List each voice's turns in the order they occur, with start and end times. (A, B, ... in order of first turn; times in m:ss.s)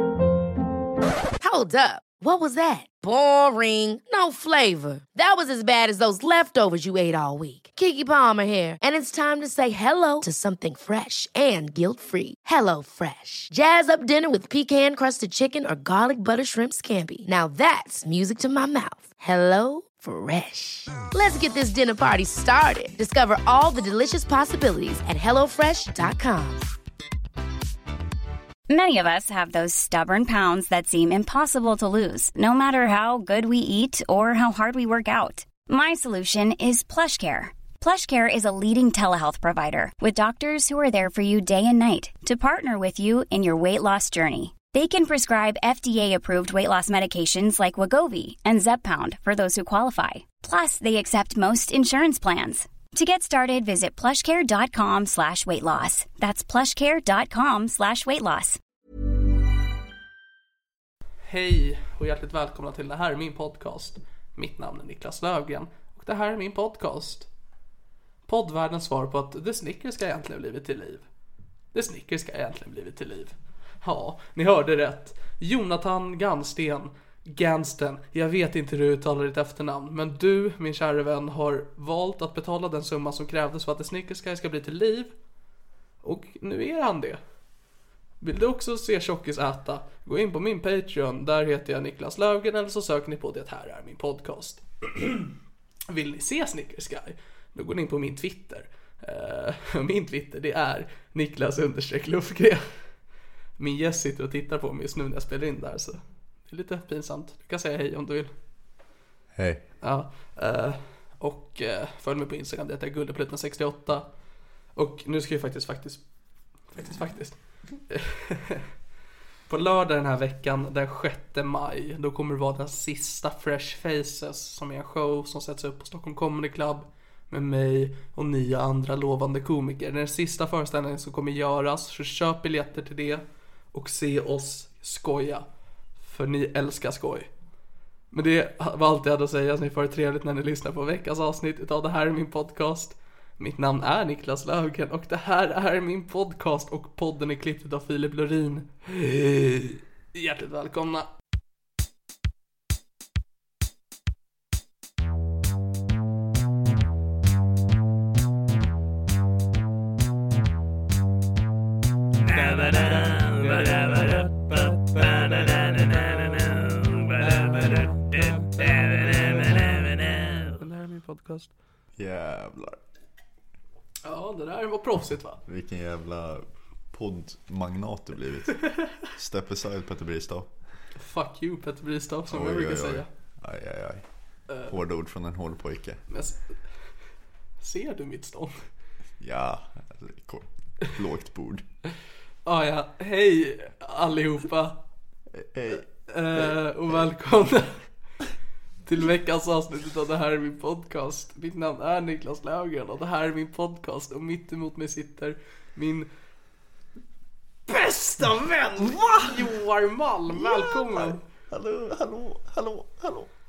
0:01.4-0:26.7 A
0:28.7-0:58.6 B
1:01.2-1:07.3 C
1:08.3-1:11.0 C
1:11.7-1:25.1 C
1:26.0-1:27.2 C
1:28.2-1:35.3 C
1:35.9-1:42.6 C
1:43.6-1:48.3 C
1:49.4-1:49.6 D
1:49.8-1:54.1 C
1:54.8-1:56.0 C
1:56.7-1:57.4 C
1:57.9-1:58.7 C
1:59.5-2:15.5 C
2:16.0-2:17.3 C
2:18.1-2:31.1 C
2:42.2-2:51.5 C
2:52.0-2:52.8 D
2:54.0-2:55.4 C
2:55.5-3:00.5 D
3:01.0-3:03.1 C
3:02.3-3:04.1 D
3:04.5-3:04.8 C
3:04.7-3:06.0 D
3:06.1-3:06.4 C
3:07.6-3:08.6 C
3:09.2-3:11.6 D
3:12.5-3:14.8 C
3:15.3-3:15.9 D
3:16.1-3:17.9 C
3:18.9-3:26.1 C
3:27.7-3:31.2 C
3:28.8-3:29.5 D
3:30.3-3:33.3 D